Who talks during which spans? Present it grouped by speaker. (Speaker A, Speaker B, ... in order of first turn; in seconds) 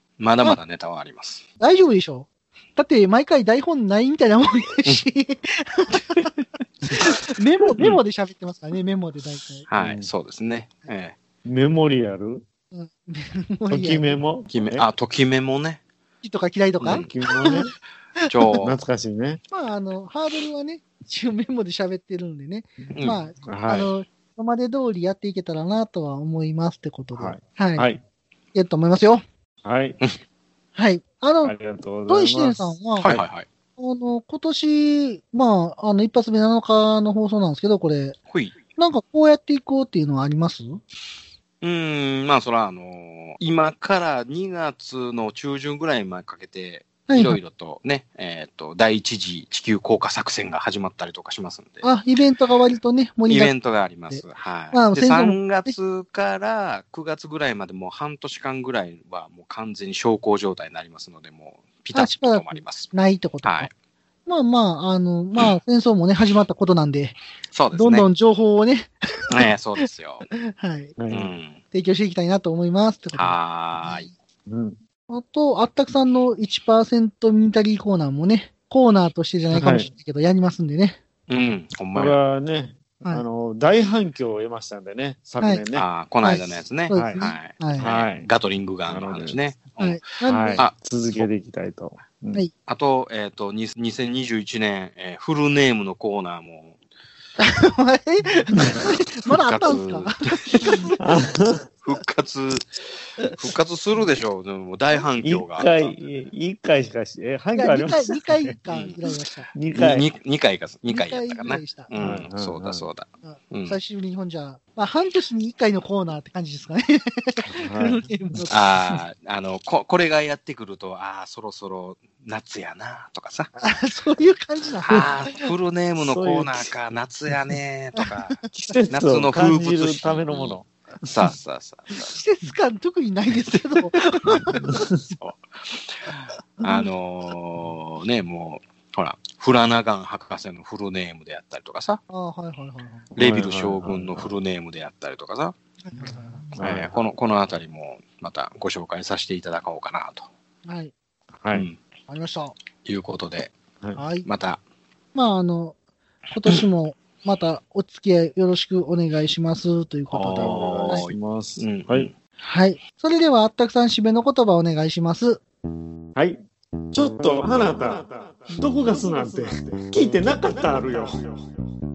Speaker A: 0.2-1.4, 9.7-11.2, 14.5-15.8, 18.3-18.8, 22.9-23.8, 33.0-33.5, 38.3-38.6, 41.6-51.8, 53.3-63.7, 67.5-68.1, 69.3-70.2, 71.1-71.6, 73.1-74.1, 81.3-82.2, 85.7-90.0, 90.6-91.3, 92.7-96.8, 99.3-100.8, 101.8-102.7, 103.3-105.7, 108.7-109.0, 109.7-113.8, 118.5-123.5, 124.8-132.2, 135.2-136.1, 136.6-142.0, 143.2-145.5, 146.6-150.3, 151.5-151.8, 152.8-153.5, 154.2-154.6, 160.1-162.1
Speaker B: 1.6-6.3, 6.9-9.7, 12.7-14.2, 16.2-17.6, 18.2-18.6, 19.5-27.9, 28.5-29.2, 30.8-31.6, 32.1-33.1, 33.8-38.1, 38.8-40.8, 47.1-47.4, 51.8-53.5, 54.1-55.7, 61.9-63.7, 64.2-67.2, 67.7-68.9, 70.4-70.9, 71.7-74.1, 75.1-81.0, 86.2-87.9, 89.8-90.6, 97.4-101.3, 107.5-109.5, 110.9-111.9, 113.2-118.6, 123.6-125.5, 128.0-128.8, 132.1-134.8, 136.1-136.8, 142.1-143.1, 145.8-146.6, 150.7-150.9, 152.1-152.5, 153.9-154.2, 155.1-155.8, 156.3-161.1, 162.4-165.4
Speaker C: 9.8-10.1, 11.4-12.4, 13.7-14.8, 16.8-17.7, 18.6-19.4, 23.4-23.9, 27.2-28.0, 29.6-30.0, 31.4-33.2, 71.0-71.3, 74.5-74.8, 79.5-79.9, 81.9-85.9, 86.9-87.2, 87.8-88.3, 88.9-89.4, 90.2-92.4, 101.0-101.6, 105.2-108.6, 109.5-110.0, 112.0-112.8, 117.5-118.4, 126.0-126.6, 128.5-131.3, 134.6-134.9, 143.2-144.3, 146.6-146.9, 151.4-151.7, 160.3-162.1, 166.1-171.4